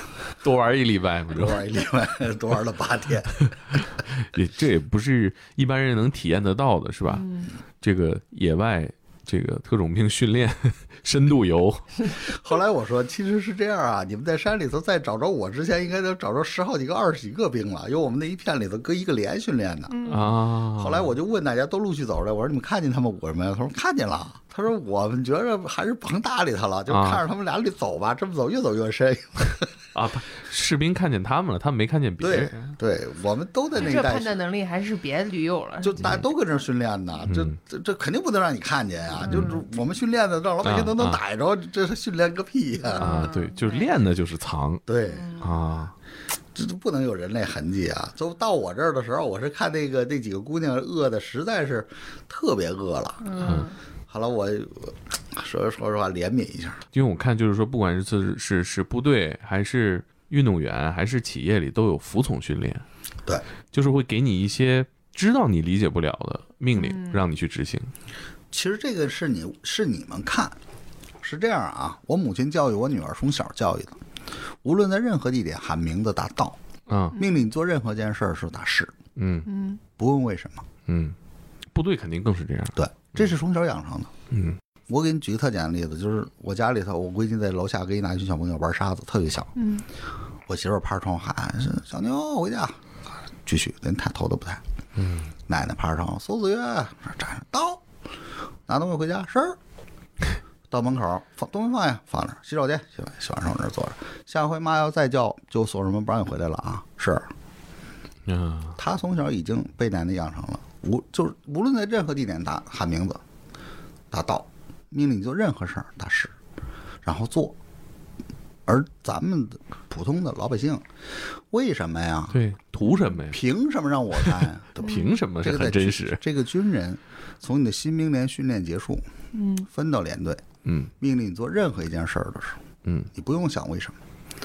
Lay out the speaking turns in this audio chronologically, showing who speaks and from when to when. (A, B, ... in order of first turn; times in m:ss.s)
0:00.4-0:01.7 A
0:01.3-0:03.5 B
0:03.4-0:07.3 A
0:07.1-0:07.5 C
0:07.8-0:12.2 A
0:12.2-0:20.1 B
0:19.9-0:20.3 C
0:20.1-0:21.1 A
0:20.7-0:29.8 B
0:26.9-0:27.2 A
0:29.9-0:32.8 A
0:32.2-0:34.3 B
0:33.8-0:36.2 C
0:35.8-0:43.3 B
0:37.3-0:37.6 A
0:39.2-0:39.6 C
0:39.2-0:39.5 A
0:40.6-0:41.2 A
0:42.9-0:43.9 C
0:43.0-0:44.8 A
0:44.9-0:45.4 B
0:45.1-0:45.4 C
0:45.4-0:45.9 A
0:46.6-0:53.3 B
0:53.2-0:53.8 C
0:53.4-0:53.7 A
0:54.1-0:56.9 B
0:56.9-1:02.8 A
1:03.7-1:07.9 A
1:06.8-1:07.2 C
1:08.5-1:10.6 B
1:11.2-1:14.0 B
1:14.6-1:16.6 B
1:16.9-1:17.2 A
1:17.2-1:19.0 B
1:19.2-1:19.5 A
1:19.4-1:19.8 C
1:20.0-1:20.7 B
1:20.9-1:21.2 A
1:21.7-1:23.2 A
1:22.8-1:24.1 B
1:24.3-1:24.6 A
1:24.9-1:29.5 B
1:29.6-1:29.8 C
1:30.5-1:32.8 B
1:33.4-1:34.6 B
1:35.0-1:35.3 A
1:35.5-1:37.8 B
1:38.7-1:39.6 B
1:40.7-1:47.3 B
1:48.3-1:48.8 A
1:48.8-1:53.2 B
1:54.1-1:56.3 B
1:57.0-1:57.6 B
1:58.7-2:00.9 B
2:01.4-2:02.4 B
2:02.3-2:03.4 A
2:03.3-2:09.0 B
2:04.2-2:06.2 A
2:09.3-2:09.7 C
2:09.7-2:14.0 B
2:10.6-2:10.9 A